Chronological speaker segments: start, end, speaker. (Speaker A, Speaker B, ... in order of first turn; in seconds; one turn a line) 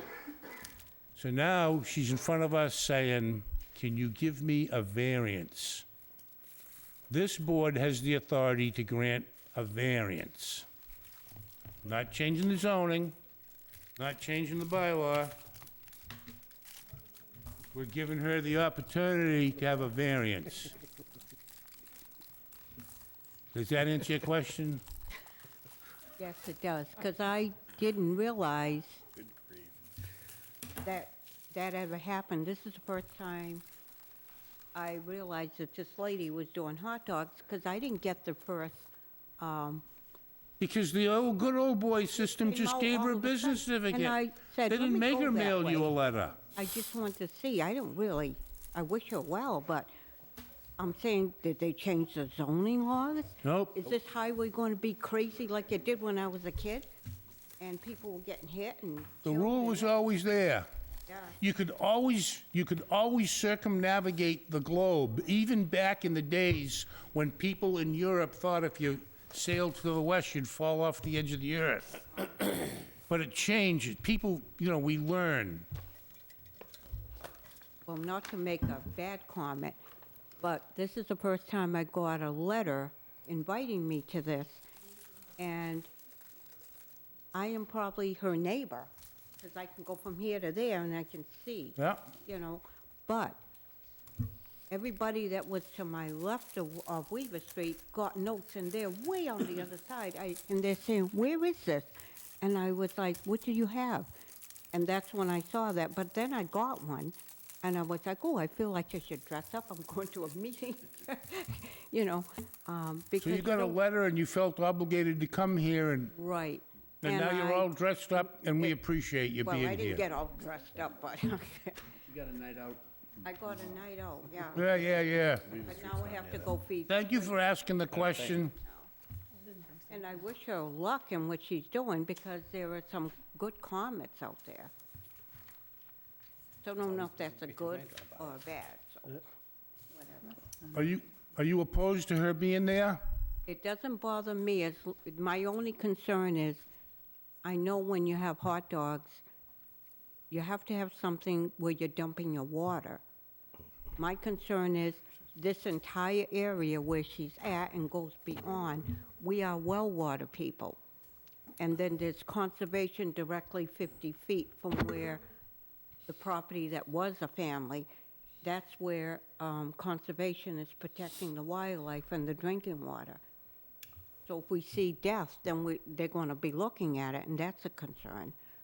Speaker A: 1.2-5.8
Speaker A: 7.1-10.7
Speaker A: 11.8-13.2
Speaker A: 14.0-15.4
Speaker A: 17.7-20.7
Speaker A: 23.5-24.8
Speaker B: 26.2-29.1
Speaker B: 30.8-33.6
Speaker B: 34.8-39.8
Speaker A: 40.6-46.4
Speaker B: 42.2-45.9
Speaker B: 46.6-49.9
Speaker B: 50.8-56.9
Speaker A: 53.4-53.9
Speaker B: 57.6-59.9
Speaker A: 59.2-60.7
Speaker A: 61.4-75.7
Speaker B: 77.9-79.8
Speaker B: 80.4-84.6
Speaker B: 85.4-85.9
Speaker B: 87.3-93.4
Speaker A: 91.8-92.1
Speaker B: 94.7-104.1
Speaker B: 104.7-113.8
Speaker A: 113.2-116.2
Speaker B: 116.2-118.8
Speaker A: 117.0-120.0
Speaker B: 119.4-121.8
Speaker C: 122.0-123.8
Speaker B: 123.2-124.7
Speaker A: 124.5-125.6
Speaker C: 125.3-126.5
Speaker B: 125.6-127.4
Speaker A: 126.9-128.6
Speaker C: 128.0-128.4
Speaker B: 128.6-128.9
Speaker B: 129.9-134.7
Speaker B: 136.6-139.2
Speaker B: 139.9-140.4
Speaker A: 140.7-143.0
Speaker B: 143.5-146.7
Speaker B: 147.4-149.2
Speaker B: 150.3-153.0
Speaker B: 154.0-160.8
Speaker B: 161.6-165.2
Speaker B: 166.1-167.9
Speaker B: 168.4-173.2
Speaker B: 174.3-178.3